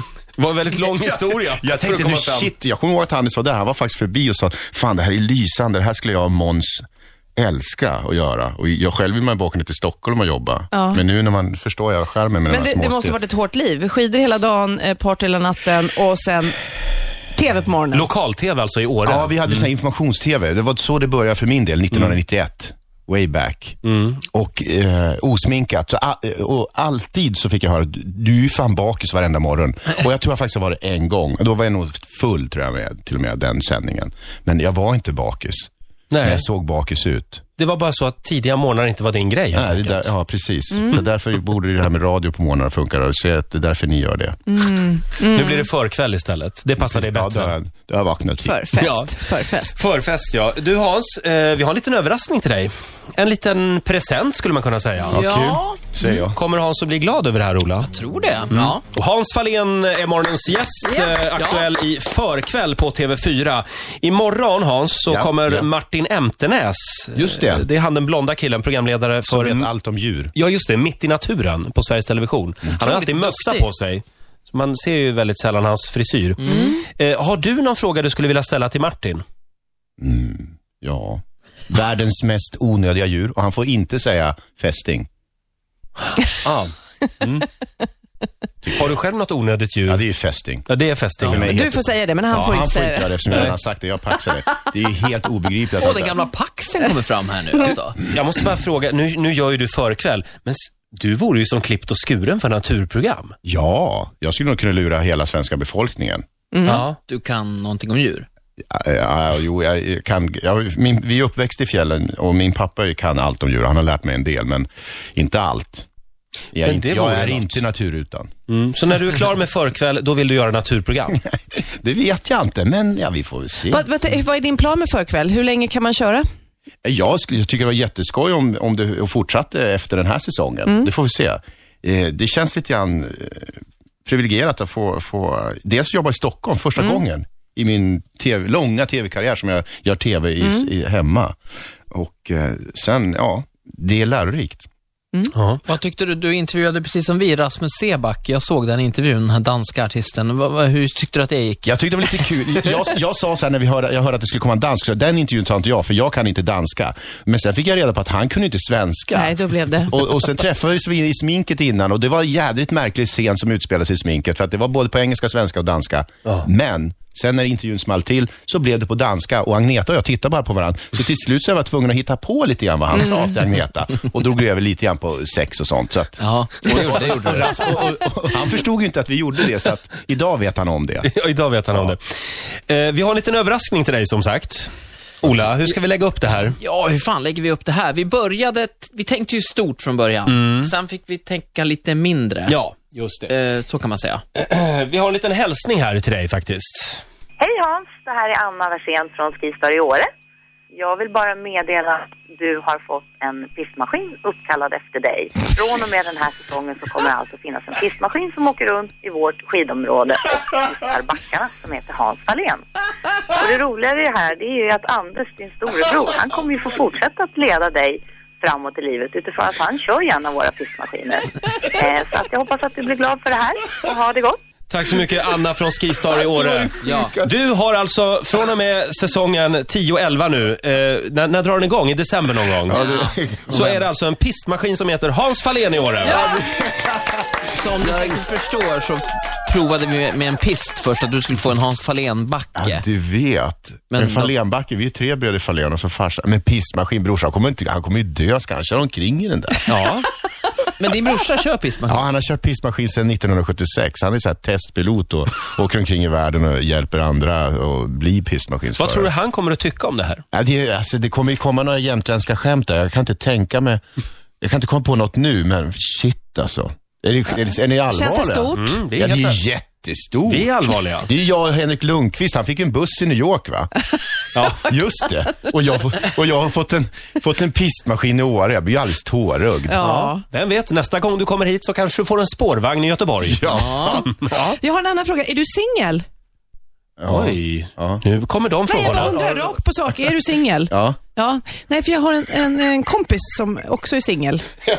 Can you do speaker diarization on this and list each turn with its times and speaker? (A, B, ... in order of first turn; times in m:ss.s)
0:00.4-0:02.5 A
0:00.9-0:06.8 B
0:07.4-0:13.2 B
0:10.7-0:11.0 C
0:12.5-0:16.6 C
0:17.3-0:18.1 C
0:17.9-0:19.7 A
0:19.0-0:23.8 B
0:23.8-0:24.2 A
0:24.3-0:35.7 B
0:36.1-0:36.4 A
0:36.2-0:37.4 B
0:37.6-0:40.1 A
0:39.5-0:44.4 B
0:44.5-0:45.7 C
0:45.2-0:47.5 A
0:46.8-0:48.6 B
0:48.4-0:49.7 C
0:48.8-0:55.6 A
0:55.1-0:55.8 D
0:55.1-0:56.4 B
0:56.3-0:57.9 A
0:57.8-0:58.8 D
0:58.5-1:09.7 A
1:00.8-1:01.7 D
1:05.1-1:05.7 B
1:07.1-1:07.6 B
1:09.3-1:10.3 B
1:10.3-1:19.2 A
1:12.7-1:13.7 D
1:16.4-1:16.8 D
1:16.5-1:16.8 C
1:20.0-1:25.1 B
1:26.4-1:27.5 A
1:28.6-1:28.9 B
1:28.8-1:30.0 A
1:29.9-1:30.7 B
1:30.7-1:31.8 A
1:31.2-1:36.2 B
1:31.3-1:33.2 C
1:35.8-1:38.0 D
1:38.1-1:43.3 A
1:43.4-1:46.2 B
1:46.5-1:46.8 C
1:46.6-1:47.0 A
1:46.7-1:48.2 D
1:48.7-1:55.9 B
1:56.5-1:58.3 B
1:56.6-1:57.6 A
1:58.5-2:01.2 A
2:01.2-2:03.9 B
2:03.7-2:06.2 C
2:06.8-2:21.4 B
2:20.4-2:20.7 C
2:21.9-2:24.7 B
2:25.3-2:25.6 A
2:25.6-2:32.4 D
2:31.6-3:01.1 B
2:39.1-2:40.0 C
2:56.2-2:58.0 D
3:01.0-3:06.6 A
3:06.6-3:12.6 D
3:10.2-3:10.7 A
3:12.5-3:13.3 A
3:13.3-3:14.2 D
3:14.4-3:17.0 A
3:17.4-3:20.1 E
3:20.7-3:32.6 E
3:33.3-3:44.4 E
3:44.7-3:52.8 A
3:46.1-3:47.3 B
3:46.8-3:47.2 D
3:52.6-3:53.7 B
3:52.7-3:53.8 D
3:53.5-3:56.3 A
3:56.0-3:56.5 D
3:56.2-3:58.4 B
3:57.5-4:02.8 D
4:02.6-4:09.6 B
4:03.9-4:04.3 D
4:09.7-4:10.1 D
4:10.8-4:12.0 D
4:11.9-4:19.1 B
4:18.8-4:20.2 A
4:20.3-4:23.8 B
4:24.4-4:33.7 B
4:27.9-4:28.8 C
4:28.5-4:29.4 A
4:30.3-4:31.1 A
4:34.3-4:34.8 A
4:34.6-4:39.8 B
4:39.7-4:40.2 C
4:39.8-4:44.5 A
4:43.2-4:44.2 B
4:43.6-4:43.9 D
4:44.2-4:46.0 C
4:47.0-4:48.0 B
4:47.1-4:49.5 A
4:48.7-4:54.4 C
4:50.7-4:51.0 B